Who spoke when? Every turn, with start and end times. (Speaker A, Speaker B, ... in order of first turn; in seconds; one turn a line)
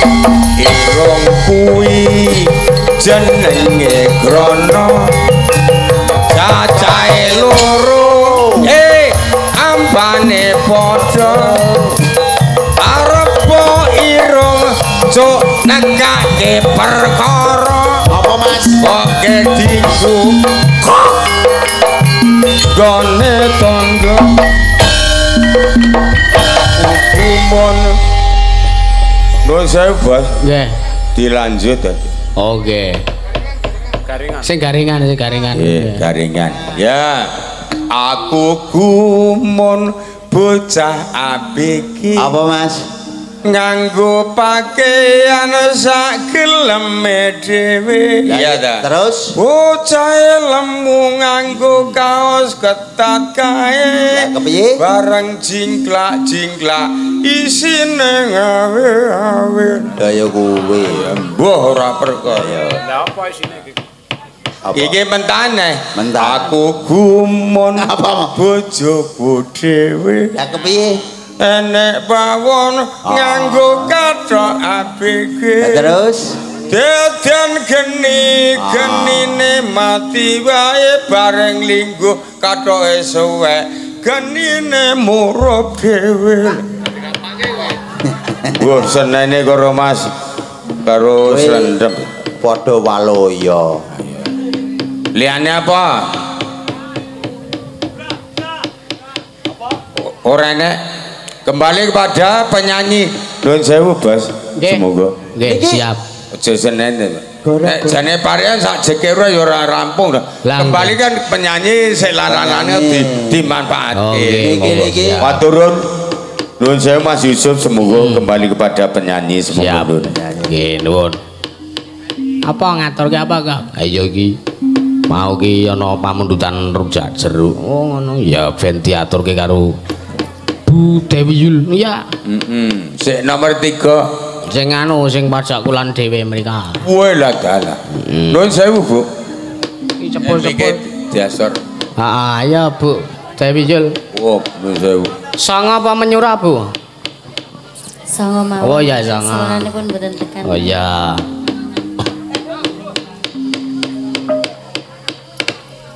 Speaker A: 0.6-5.1
Speaker A: 6.3-11.6
Speaker B: 8.2-8.7
Speaker A: 12.8-18.1
Speaker B: 18.1-18.8
Speaker A: 18.8-21.1
Speaker A: 22.7-24.4
Speaker A: 26.8-28.0
Speaker A: 29.4-30.4
Speaker C: 30.4-30.7
Speaker A: 31.1-32.0
Speaker C: 32.4-33.0
Speaker C: 34.4-36.0
Speaker A: 35.5-42.3
Speaker B: 42.1-42.8
Speaker A: 43.4-60.0
Speaker B: 48.2-49.3
Speaker B: 54.1-54.8
Speaker B: 60.0-61.2
Speaker A: 60.9-62.6
Speaker B: 62.2-62.8
Speaker B: 64.7-65.0
Speaker A: 64.7-70.3
Speaker B: 65.9-66.5
Speaker B: 67.8-68.3
Speaker B: 70.3-71.0
Speaker A: 71.4-76.0
Speaker B: 73.0-73.9
Speaker B: 75.6-76.4
Speaker A: 76.7-86.7
Speaker B: 78.5-79.4
Speaker B: 88.0-88.8
Speaker A: 88.5-90.1
Speaker A: 90.8-92.1
Speaker B: 91.2-91.7
Speaker B: 92.4-93.8
Speaker A: 94.0-94.2
Speaker A: 95.1-96.2
Speaker A: 100.0-100.8
Speaker A: 101.5-105.1
Speaker C: 104.6-106.0
Speaker B: 105.4-105.8
Speaker A: 106.3-115.9
Speaker B: 107.4-108.0
Speaker C: 110.4-111.0
Speaker B: 112.3-113.5
Speaker C: 113.9-115.4
Speaker B: 114.4-115.4
Speaker A: 116.6-120.1
Speaker C: 117.8-118.3
Speaker C: 119.5-121.2
Speaker B: 120.0-120.6
Speaker C: 122.4-124.4
Speaker C: 125.1-129.8
Speaker C: 130.7-132.1
Speaker A: 132.2-134.1
Speaker C: 134.4-136.8
Speaker A: 136.8-139.1
Speaker C: 137.9-138.4
Speaker C: 140.0-140.8
Speaker A: 140.2-141.6
Speaker C: 142.0-144.0
Speaker A: 144.1-145.1
Speaker C: 145.4-146.7
Speaker D: 148.1-150.7
Speaker C: 148.6-149.7
Speaker C: 150.4-151.2